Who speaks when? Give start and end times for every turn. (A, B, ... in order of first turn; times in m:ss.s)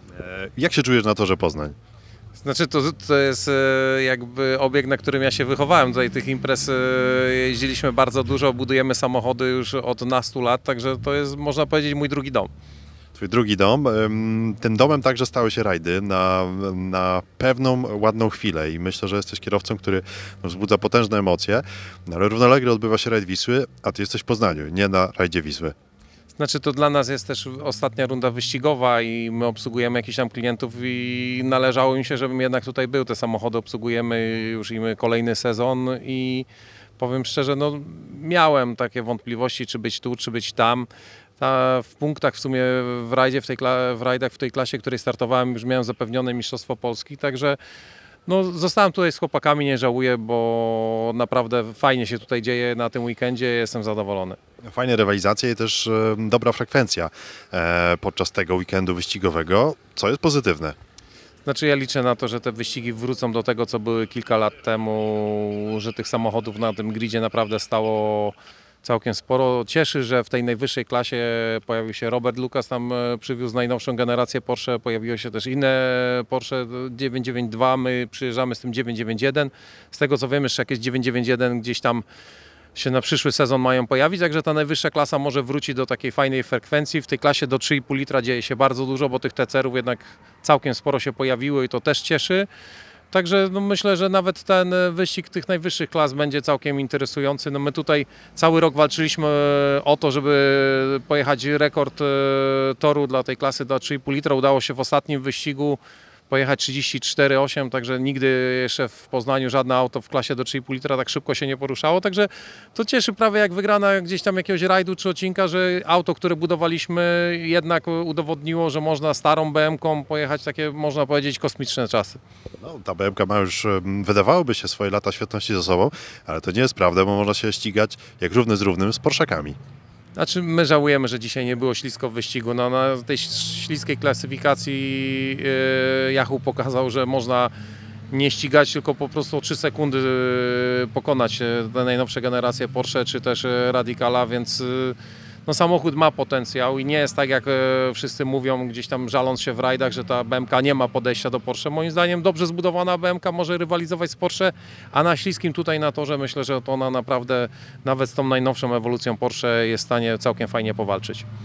0:00.2-0:01.7 A
0:02.4-0:12.5 B
0:13.1-0:25.7 A
0:26.4-0:36.5 B
0:37.0-0:47.6 B
0:48.2-0:54.4 B
0:54.7-1:00.8 A
1:01.4-1:22.0 B
1:22.7-1:32.5 B
1:33.1-2:02.2 B
2:02.6-2:09.6 A
2:10.2-2:17.5 B
2:18.1-2:41.2 B